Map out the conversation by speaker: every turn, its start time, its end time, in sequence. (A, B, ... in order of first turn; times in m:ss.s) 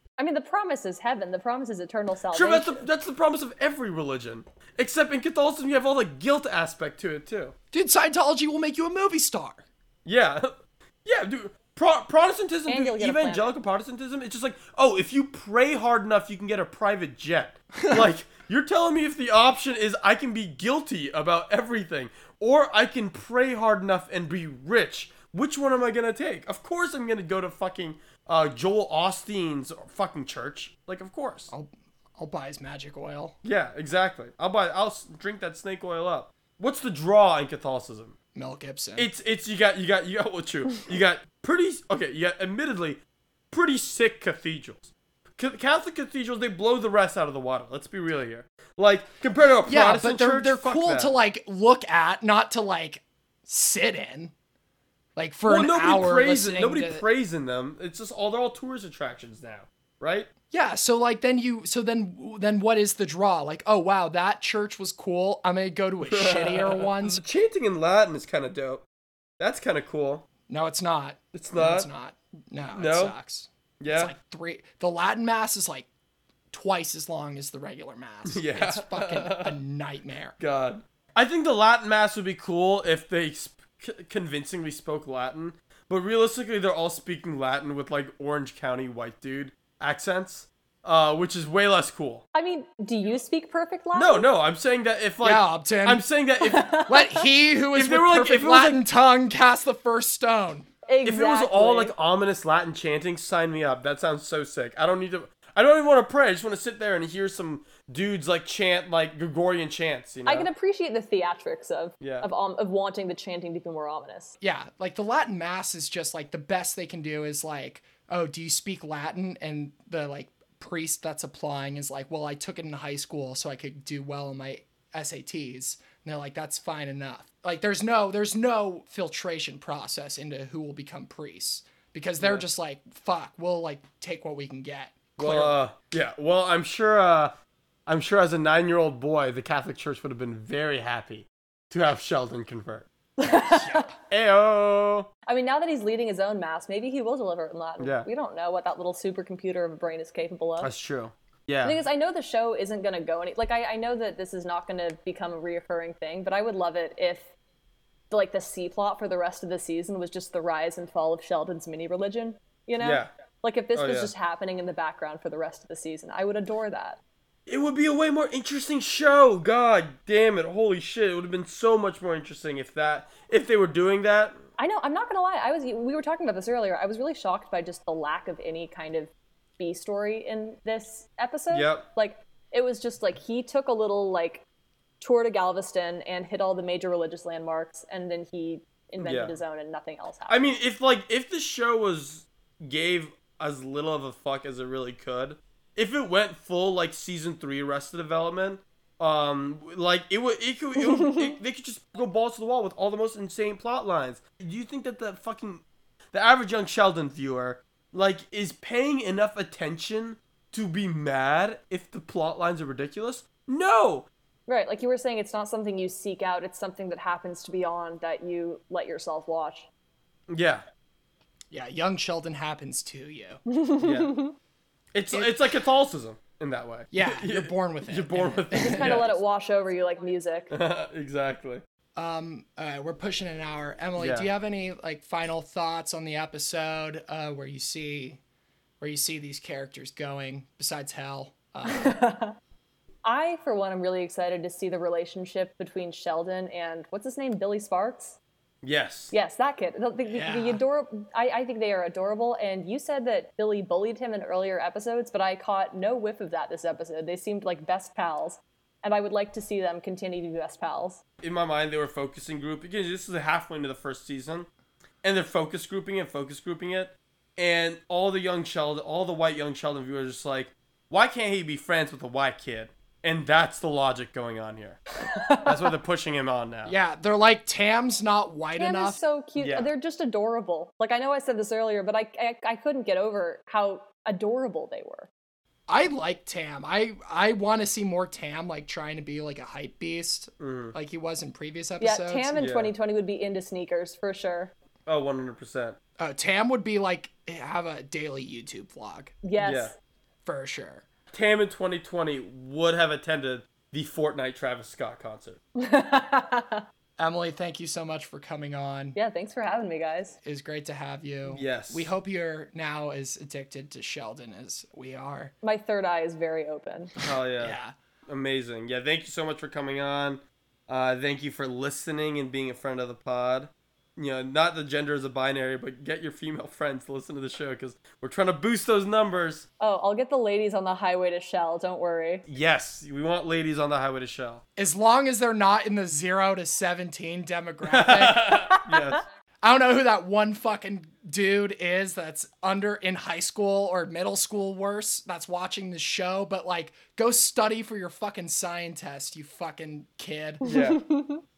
0:00.2-0:02.8 A
0:02.3-0:07.5 B
0:07.7-0:09.6 C
0:10.0-0:10.5 B
0:11.0-0:31.5 B
0:12.7-0:13.5 A
0:31.5-0:33.4 C
0:33.4-0:38.2 B
0:38.4-0:39.1 C
0:39.0-0:43.0 B
0:43.5-0:51.1 B
0:49.7-0:54.3 C
0:55.2-0:57.0 C
0:55.5-1:00.3 B
1:00.5-1:07.2 C
1:06.0-1:08.8 B
1:09.4-1:10.2 B
1:10.5-1:15.9 C
1:11.3-1:11.9 B
1:12.7-1:13.2 B
1:13.8-1:14.1 B
1:16.5-1:20.4 C
1:18.3-1:19.6 B
1:20.4-1:32.2 B
1:32.3-1:34.3 A
1:33.9-1:36.7 B
1:35.2-1:36.0 C
1:36.4-1:37.2 A
1:36.8-1:40.7 C
1:37.7-1:38.8 B
1:40.9-1:41.9 A
1:41.0-1:50.5 B
1:50.3-1:54.4 A
1:52.0-1:52.3 B
1:54.4-2:15.6 C
2:12.2-2:12.4 B
2:15.2-2:17.3 B
2:17.9-2:22.9 B
2:23.2-2:23.9 A
2:23.6-2:23.9 C
2:24.1-2:25.1 B
2:25.3-2:30.7 A
2:27.8-2:28.1 B
2:30.6-2:31.8 B
2:31.6-2:37.3 A
2:38.1-2:47.0 A
2:42.8-2:43.1 B
2:43.8-2:44.1 B
2:47.5-2:54.4 B
2:54.6-3:04.4 A
3:01.5-3:01.8 B
3:05.0-3:10.5 A
3:09.0-3:09.4 B
3:10.3-3:34.1 B
3:20.8-3:21.4 A
3:34.5-3:39.7 A
3:40.3-3:40.6 B
3:41.5-3:43.4 C
3:43.5-3:44.3 A
3:43.8-3:44.1 B
3:44.9-3:49.2 B
3:45.1-3:45.4 C
3:46.9-3:49.1 C
3:48.5-3:50.5 A
3:50.5-3:51.6 B
3:52.0-3:58.2 C
3:54.0-3:54.3 B
3:58.8-4:02.0 C
4:01.6-4:02.4 A
4:03.0-4:08.2 A
4:08.6-4:09.1 B
4:09.1-4:21.0 A
4:10.1-4:10.6 C
4:21.2-4:24.5 B
4:25.0-4:34.8 B
4:35.0-4:35.6 A
4:35.4-4:36.8 B
4:36.6-4:39.0 C
4:38.6-4:45.1 A
4:39.4-4:39.7 B
4:45.7-4:52.4 C
4:50.4-4:50.8 B
4:51.8-4:54.5 A
4:52.4-4:52.7 B
4:54.9-4:55.8 B
4:56.0-4:59.2 C
4:59.2-4:59.7 A
4:59.4-4:59.7 B
5:00.2-5:00.9 C
5:01.1-5:05.4 B
5:05.6-5:06.6 A
5:07.0-5:09.0 C
5:09.0-5:10.2 A
5:10.2-5:15.3 C
5:11.3-5:11.9 B
5:15.4-5:16.9 A
5:17.0-5:29.5 B
5:17.4-5:17.7 C
5:29.6-5:32.2 A
5:32.3-5:34.4 B
5:34.6-5:38.5 C
5:37.6-5:39.0 B
5:39.4-5:50.4 C
5:50.4-5:50.8 B
5:50.4-5:51.2 A